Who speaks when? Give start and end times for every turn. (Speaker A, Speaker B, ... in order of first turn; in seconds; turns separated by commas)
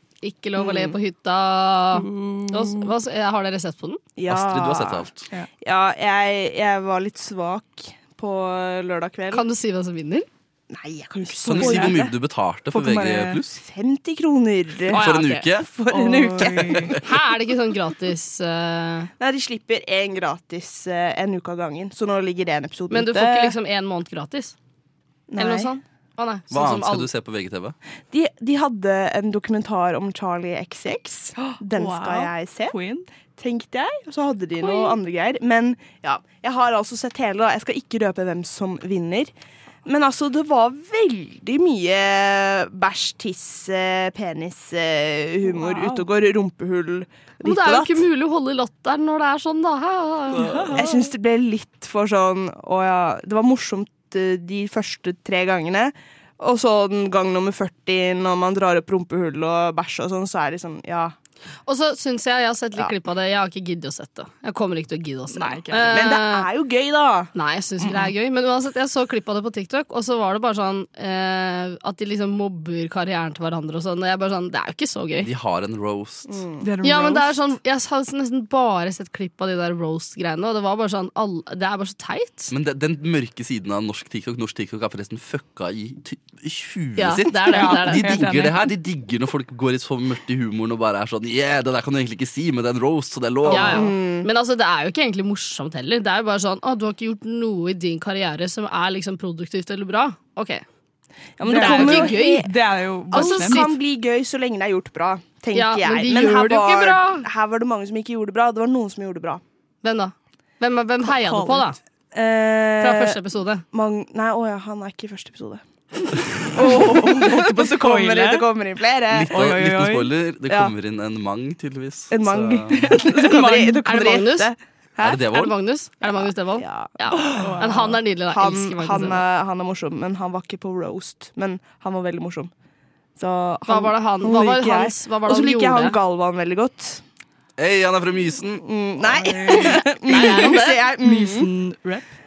Speaker A: 0.2-4.0, Speaker B: 1.9-2.5, Speaker C: 4.2-5.1, Speaker D: 4.3-5.2, Speaker C: 5.6-9.4, Speaker A: 9.3-10.3, Speaker C: 10.7-12.2, Speaker D: 11.4-13.6, Speaker B: 11.5-12.0, Speaker C: 12.7-17.0, Speaker A: 14.9-15.5, Speaker D: 14.9-15.7, Speaker B: 15.9-16.9, Speaker A: 17.0-19.1, Speaker C: 19.2-23.5, Speaker A: 22.9-24.5, Speaker C: 25.3-25.8, Speaker A: 25.4-27.1, Speaker D: 26.5-27.8, Speaker C: 28.1-32.8, Speaker B: 31.4-33.1, Speaker C: 33.4-39.3, Speaker C: 39.8-48.0, Speaker B: 45.6-46.0, Speaker A: 47.4-50.8, Speaker B: 50.4-50.8, Speaker C: 50.7-61.1, Speaker A: 61.6-66.5, Speaker B: 65.3-66.1, Speaker C: 65.9-68.0, Speaker A: 67.3-75.3, Speaker D: 75.2-76.3, Speaker C: 76.3-76.7, Speaker B: 76.6-77.3, Speaker A: 76.8-82.5, Speaker D: 82.5-93.9, Speaker A: 87.0-88.2, Speaker B: 87.5-88.6, Speaker A: 93.5-100.6, Speaker B: 93.5-93.8, Speaker C: 93.5-94.3, Speaker C: 101.4-102.5, Speaker B: 101.4-103.7, Speaker A: 101.5-102.5, Speaker C: 103.1-109.4, Speaker A: 103.1-103.7, Speaker A: 105.5-107.2, Speaker A: 109.8-111.8, Speaker B: 111.0-111.7, Speaker C: 112.1-113.2, Speaker A: 112.8-113.6, Speaker C: 113.7-115.6, Speaker C: 116.4-119.4, Speaker B: 116.5-118.5, Speaker D: 119.1-123.0, Speaker B: 119.3-120.1, Speaker C: 120.5-120.7, Speaker C: 122.1-125.2, Speaker B: 122.9-123.8, Speaker A: 123.5-124.5, Speaker D: 125.0-125.5, Speaker A: 125.3-129.2, Speaker C: 126.2-127.5, Speaker B: 127.3-128.0, Speaker C: 128.3-132.5, Speaker C: 133.2-137.0, Speaker A: 133.7-136.0, Speaker D: 137.6-138.6, Speaker C: 138.6-141.5, Speaker B: 139.2-139.7, Speaker A: 139.5-140.8, Speaker B: 141.0-142.1